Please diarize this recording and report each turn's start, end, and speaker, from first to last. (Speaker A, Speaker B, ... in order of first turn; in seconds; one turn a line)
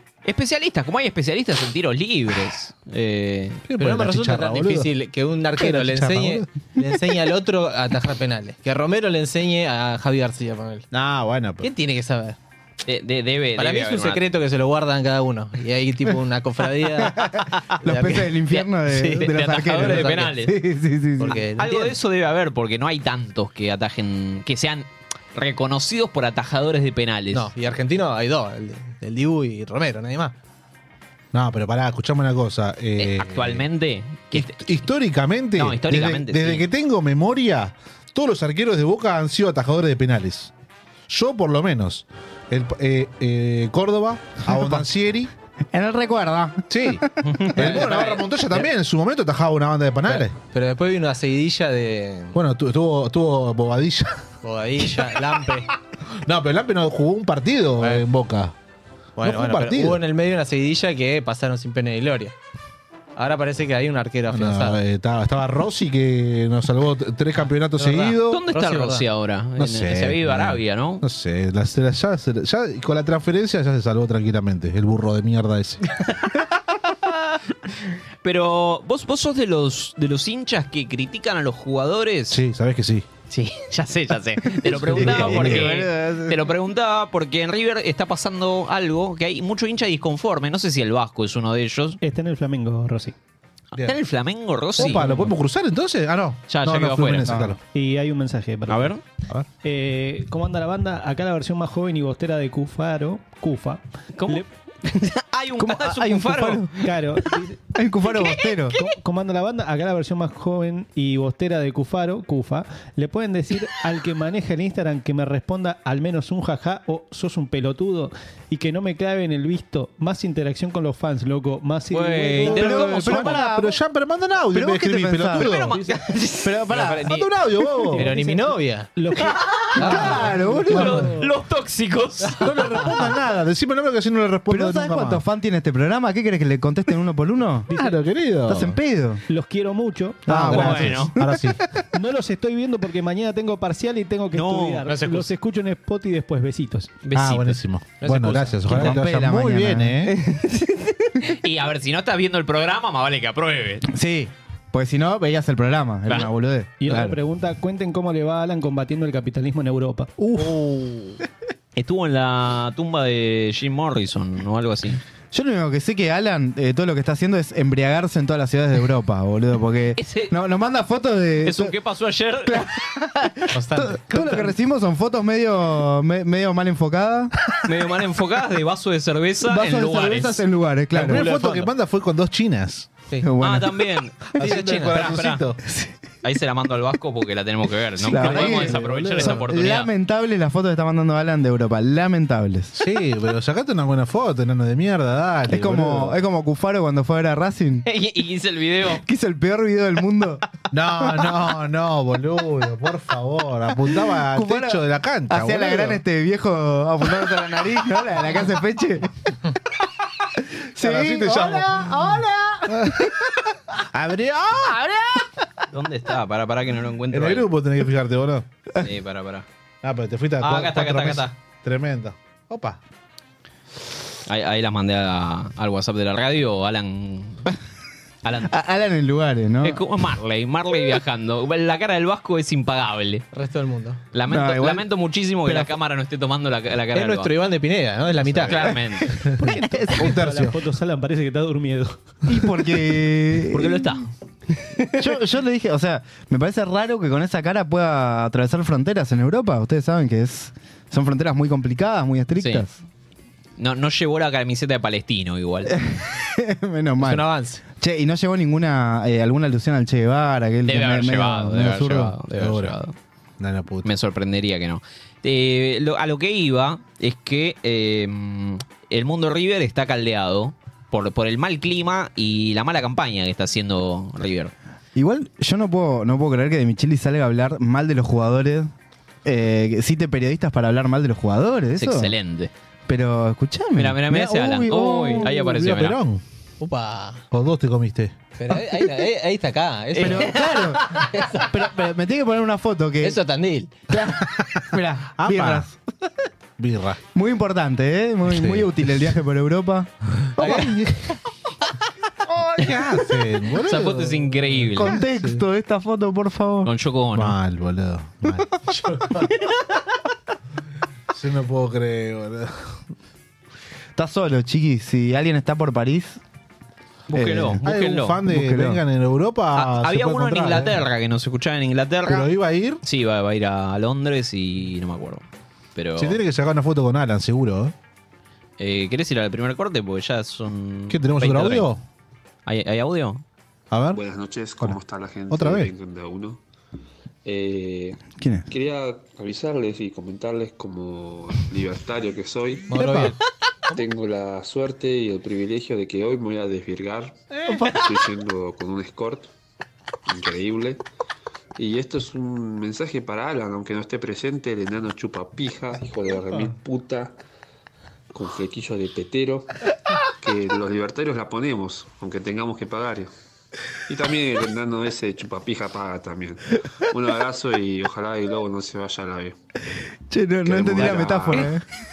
Speaker A: 0.2-3.6
Speaker B: 3.7-4.9
Speaker C: 3.8-10.8
Speaker B: 5.6-6.5
Speaker B: 10.9-11.7
Speaker C: 11.6-12.4
Speaker A: 12.8-14.2
Speaker C: 13.6-18.3
Speaker D: 17.1-21.4
Speaker C: 18.9-20.4
Speaker A: 19.2-20.5
Speaker C: 21.2-22.0
Speaker A: 21.6-27.5
Speaker C: 27.3-30.3
Speaker B: 31.3-33.6
Speaker A: 33.0-34.7
Speaker B: 34.3-40.5
Speaker A: 35.5-36.7
Speaker B: 41.1-45.3
Speaker D: 44.5-44.8
Speaker D: 45.7-47.8
Speaker B: 46.7-50.4
Speaker A: 47.2-48.1
Speaker C: 47.6-48.6
Speaker C: 50.1-52.4
Speaker B: 52.3-54.2
Speaker C: 54.4-55.7
Speaker B: 56.2-58.5
Speaker C: 57.8-58.0
Speaker C: 59.2-62.3
Speaker B: 59.2-60.0
Speaker C: 63.2-64.8
Speaker B: 64.3-68.4
Speaker C: 67.8-69.0
Speaker A: 68.3-71.0
Speaker B: 69.6-75.8
Speaker A: 76.0-76.4
Speaker A: 77.0-82.4
Speaker B: 82.3-83.0
Speaker A: 83.3-92.0
Speaker D: 84.5-86.5
Speaker B: 84.7-85.7
Speaker E: 92.0-93.1
Speaker A: 93.8-95.3
Speaker B: 94.8-97.6
Speaker A: 96.5-97.5
Speaker D: 97.2-97.5
Speaker E: 97.7-99.0
Speaker A: 98.7-99.0
Speaker E: 99.6-104.5
Speaker A: 104.1-106.8
Speaker D: 105.5-106.7
Speaker E: 106.8-107.7
Speaker D: 107.7-108.8
Speaker A: 108.2-108.8
Speaker E: 108.8-123.4
Speaker A: 121.9-123.3
Speaker B: 122.5-125.7
Speaker D: 122.5-123.8
Speaker D: 124.5-125.5
Speaker A: 125.3-126.6
Speaker D: 126.4-127.1
Speaker C: 126.7-127.3
Speaker B: 127.0-128.1
Speaker E: 127.9-131.3
Speaker C: 127.9-128.9
Speaker A: 129.2-130.1
Speaker C: 129.8-130.4
Speaker D: 129.8-131.1
Speaker A: 130.7-132.5
Speaker B: 130.7-131.0
Speaker B: 132.4-135.2
Speaker D: 134.5-137.7
Speaker E: 137.7-138.0
Speaker B: 137.7-138.8
Speaker D: 138.5-139.2
Speaker E: 139.3-140.5
Speaker D: 140.3-141.6
Speaker B: 140.3-141.6
Speaker A: 140.5-141.1
Speaker E: 141.9-146.9
Speaker A: 144.3-144.8
Speaker C: 144.8-145.3
Speaker A: 147.0-147.6
Speaker B: 147.1-150.2
Speaker C: 148.0-148.9
Speaker D: 148.7-150.7
Speaker A: 151.2-153.8
Speaker D: 153.8-157.2
Speaker E: 156.8-160.2
Speaker D: 160.2-160.6
Speaker A: 161.8-165.0
Speaker D: 165.3-171.7
Speaker A: 170.0-170.3
Speaker A: 171.4-172.9
Speaker D: 172.4-177.3
Speaker C: 173.5-174.4
Speaker A: 177.6-180.4
Speaker D: 179.4-181.3
Speaker B: 180.9-182.9
Speaker C: 181.0-181.7
Speaker D: 183.2-184.0
Speaker A: 183.4-185.4
Speaker B: 184.3-185.6
Speaker C: 184.4-185.1
Speaker D: 185.7-185.9
Speaker A: 186.2-189.9
Speaker D: 188.0-192.7
Speaker B: 188.1-189.4
Speaker B: 192.7-196.2
Speaker D: 195.5-197.8
Speaker A: 197.8-199.0
Speaker D: 198.9-200.4
Speaker B: 200.7-206.0
Speaker D: 201.0-201.4
Speaker D: 204.1-209.5
Speaker D: 210.4-213.2
Speaker B: 210.8-213.1
Speaker B: 213.7-214.8
Speaker D: 214.8-215.2
Speaker A: 215.7-217.5
Speaker B: 217.1-218.4
Speaker A: 218.8-219.4
Speaker B: 219.8-222.8
Speaker A: 220.4-221.3
Speaker A: 224.2-227.5
Speaker A: 228.2-228.5
Speaker D: 228.5-229.8
Speaker A: 229.6-233.2
Speaker C: 233.3-234.0
Speaker A: 234.1-237.3
Speaker D: 234.3-234.8
Speaker C: 236.9-238.8
Speaker A: 238.2-239.2
Speaker B: 239.4-240.6
Speaker E: 239.4-242.0
Speaker D: 242.3-244.0
Speaker A: 243.5-244.1
Speaker D: 245.0-252.7
Speaker A: 252.4-252.6
Speaker A: 253.6-255.8
Speaker D: 255.7-257.3
Speaker C: 257.0-257.6
Speaker D: 257.8-262.1
Speaker A: 260.6-262.9
Speaker B: 262.3-262.8
Speaker B: 263.4-263.9
Speaker A: 263.8-274.5
Speaker D: 274.9-278.7
Speaker D: 279.2-282.1
Speaker A: 281.8-282.5
Speaker D: 282.9-285.3
Speaker A: 283.7-286.0
Speaker B: 285.1-286.2
Speaker C: 286.6-287.2
Speaker B: 287.3-288.1
Speaker C: 288.4-290.4
Speaker A: 289.9-291.0
Speaker D: 290.0-291.0
Speaker C: 291.0-291.6
Speaker D: 291.5-293.2
Speaker C: 293.0-293.7
Speaker D: 293.9-295.7
Speaker B: 294.1-295.7
Speaker B: 296.6-297.0
Speaker D: 297.1-300.7
Speaker B: 298.3-298.7
Speaker C: 300.4-300.8
Speaker B: 302.3-305.4
Speaker A: 303.6-305.0
Speaker D: 304.8-306.7
Speaker A: 306.6-307.4
Speaker B: 307.1-308.9
Speaker C: 308.7-309.3
Speaker B: 311.1-312.8
Speaker D: 313.9-316.2
Speaker A: 317.1-318.2
Speaker D: 317.1-317.6
Speaker B: 317.6-320.8
Speaker D: 318.3-318.8
Speaker A: 319.5-322.3
Speaker B: 322.1-322.8
Speaker A: 322.8-326.2
Speaker B: 326.0-327.7
Speaker A: 328.6-331.7
Speaker B: 330.9-331.8
Speaker A: 332.4-333.2
Speaker B: 333.7-334.0
Speaker F: 333.9-336.4
Speaker B: 335.3-335.7
Speaker F: 337.2-342.7
Speaker D: 338.2-338.5
Speaker B: 342.7-343.2
Speaker C: 342.7-343.1
Speaker F: 343.7-349.3
Speaker B: 347.3-347.7
Speaker F: 350.1-350.8
Speaker F: 351.6-357.1
Speaker F: 358.1-359.5
Speaker F: 360.2-363.1
Speaker F: 363.9-369.3
Speaker D: 370.1-371.6
Speaker F: 370.4-371.5